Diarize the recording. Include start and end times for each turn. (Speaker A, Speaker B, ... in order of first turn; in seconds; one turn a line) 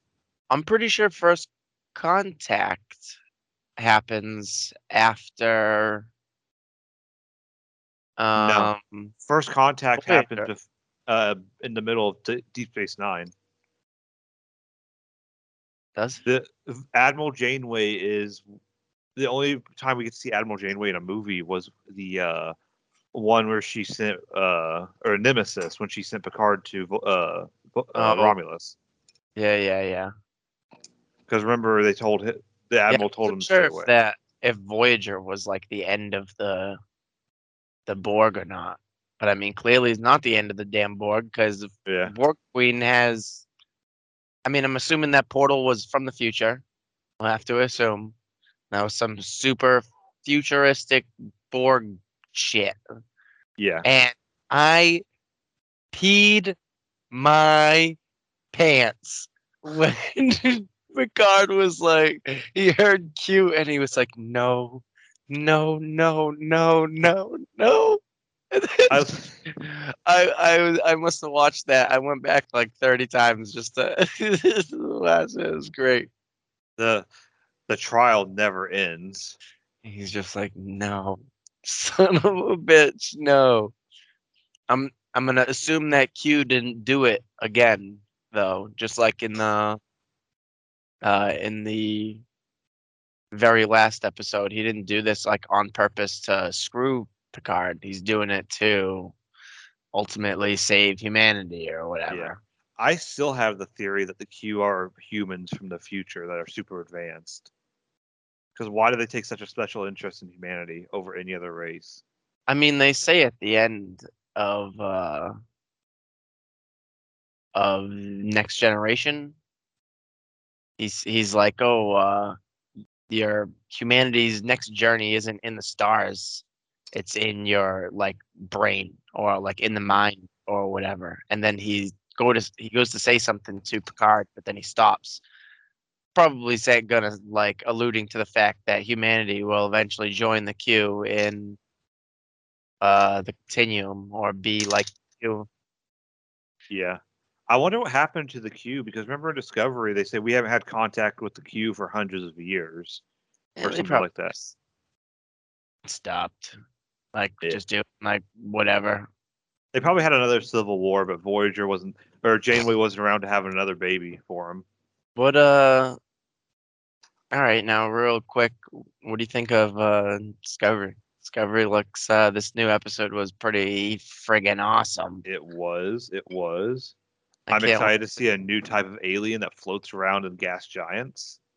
Speaker A: 0.5-3.1
Speaker A: 3.8-6.1
Speaker A: 8.2-9.1
Speaker B: 8.4-8.7
Speaker B: 9.2-13.3
Speaker A: 10.0-10.5
Speaker A: 16.0-16.2
Speaker B: 16.3-18.4
Speaker B: 19.2-22.5
Speaker B: 23.1-28.8
Speaker A: 27.9-28.4
Speaker A: 29.4-30.1
Speaker B: 31.3-33.9
Speaker A: 32.9-36.8
Speaker A: 37.9-43.5
Speaker B: 41.9-42.1
Speaker A: 44.5-46.6
Speaker A: 47.2-48.1
Speaker A: 48.7-52.8
Speaker B: 53.6-53.9
Speaker A: 53.8-55.0
Speaker A: 55.9-56.6
Speaker A: 57.1-58.0
Speaker A: 58.5-68.0
Speaker A: 68.5-76.1
Speaker B: 68.9-69.3
Speaker B: 76.8-77.1
Speaker B: 77.7-79.4
Speaker A: 79.8-83.7
Speaker A: 84.7-89.8
Speaker A: 91.0-92.2
Speaker A: 93.3-99.1
Speaker A: 99.9-102.4
Speaker B: 102.1-107.5
Speaker B: 108.5-112.0
Speaker A: 112.5-115.3
Speaker A: 117.5-119.3
Speaker A: 120.8-122.4
Speaker A: 123.1-135.2
Speaker A: 136.2-141.6
Speaker A: 142.8-145.5
Speaker B: 146.7-153.0
Speaker A: 153.6-154.5
Speaker B: 153.6-154.3
Speaker A: 155.8-156.6
Speaker A: 157.1-159.1
Speaker B: 159.7-164.6
Speaker A: 165.2-166.0
Speaker A: 167.3-175.2
Speaker B: 175.2-176.9
Speaker A: 177.5-177.9
Speaker B: 177.5-181.4